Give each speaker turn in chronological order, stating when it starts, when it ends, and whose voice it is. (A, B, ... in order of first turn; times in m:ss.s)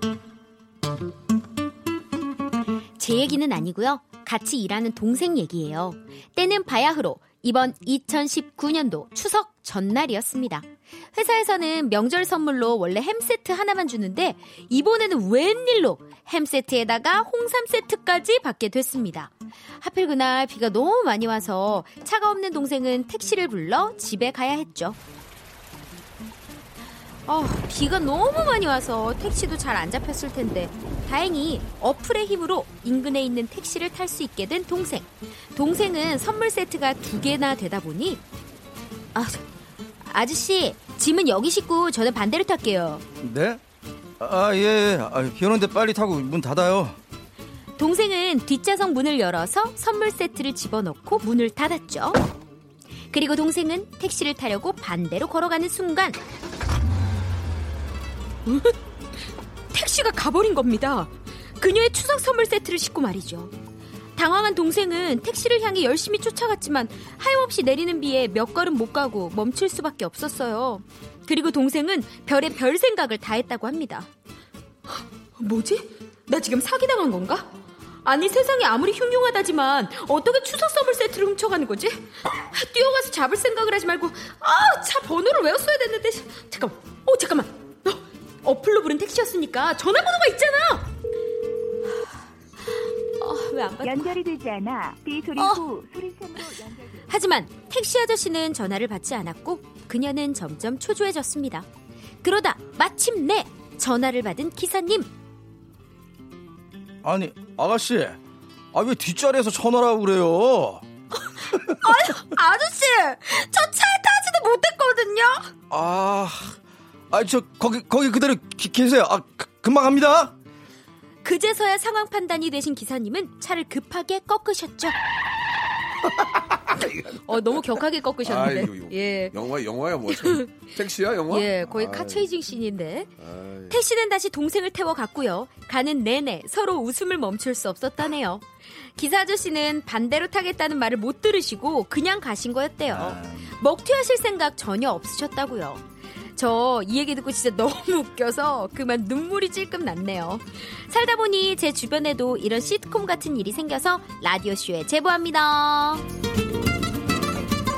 0:03.0-0:25.0 A
0:27.3-0:38.2 A
0:39.2-0:39.4 A
0:40.0-0:43.0 A
0:43.2-0:43.6 B
0:44.2-0:47.0 B
0:47.8-0:52.2 A
0:53.1-0:56.2 A
0:58.5-0:58.8 A
0:59.7-1:03.5 A
1:04.2-1:14.1 A
1:14.9-1:17.5 A
1:18.0-1:30.9 A
1:33.2-1:34.1 A
1:33.8-1:36.8 C
1:35.4-1:35.7 A
1:37.1-1:41.7 A
1:42.2-1:45.1 A
1:47.0-1:48.2 B
1:48.7-1:50.8 B
1:51.5-1:55.5 A
1:55.7-1:56.6 B
1:57.1-2:00.3 B
2:01.2-2:05.0 A
2:06.3-2:07.2 D
2:07.2-2:09.3 A
2:08.2-2:12.3 D
2:10.1-2:10.6 A
2:11.3-2:13.1 A
2:13.2-2:13.8 D
2:13.7-2:18.4 A
2:19.0-2:25.8 A
2:22.9-2:23.5 B
2:26.4-2:36.0 A